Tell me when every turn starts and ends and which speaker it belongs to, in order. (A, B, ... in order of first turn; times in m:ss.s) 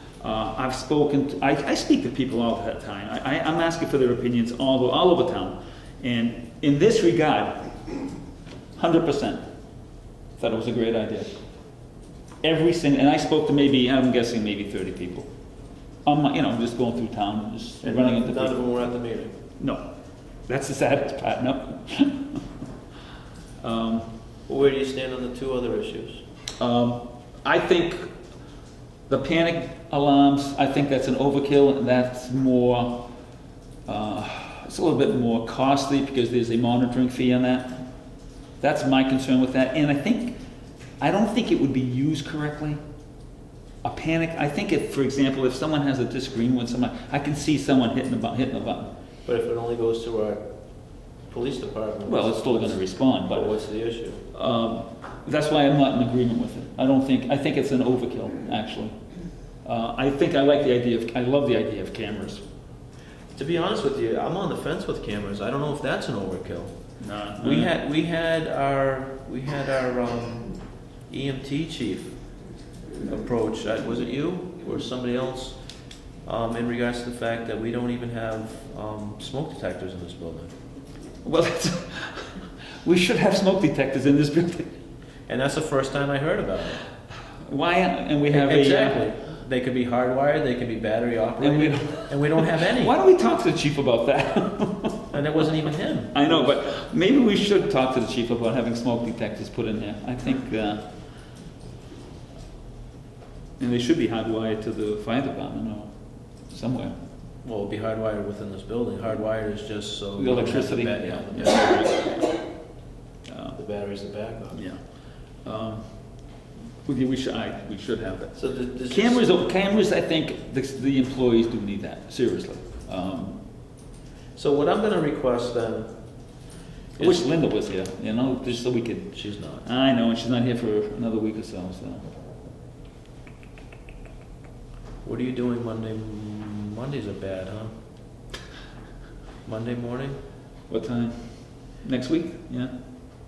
0:00.2-0:07.7 A
0:08.8-0:09.4 A
0:10.4-0:11.3 A
0:12.4-0:15.3 A
0:16.0-0:18.6 A
0:17.8-0:19.3 B
0:20.5-0:22.4 A
0:23.6-0:24.1 A
0:24.5-0:26.2 B
0:26.6-0:28.0 A
0:29.1-0:33.1 A
0:33.9-0:37.8 A
0:38.6-0:40.4 A
0:41.0-0:42.8 A
0:43.8-0:48.9 A
0:49.2-0:50.4 B
0:51.3-0:52.7 B
0:52.1-0:53.5 A
0:53.3-0:54.2 B
0:54.3-0:59.0 A
0:59.6-1:02.4 A
1:03.4-1:06.7 B
1:07.0-1:07.7 A
1:07.4-1:10.5 B
1:11.1-1:12.1 B
1:13.0-1:15.6 B
1:16.2-1:20.5 B
1:21.2-1:24.7 A
1:25.3-1:26.8 B
1:27.4-1:29.1 A
1:28.3-1:33.0 B
1:31.4-1:35.1 A
1:35.1-1:36.6 B
1:36.1-1:40.8 A
1:43.6-1:45.9 A
1:46.5-1:47.0 A
1:47.4-1:51.9 B
1:50.2-1:52.1 A
1:53.3-1:53.6 A
1:53.6-1:54.6 B
1:54.5-1:54.8 A
1:55.4-1:55.8 A
1:56.9-2:03.4 A
1:58.4-1:59.4 B
2:04.4-2:05.9 B
2:07.0-2:07.2 B
2:07.0-2:12.0 A
2:09.1-2:09.7 B
2:15.0-2:17.7 B
2:19.4-2:20.2 B
2:20.7-2:22.7 A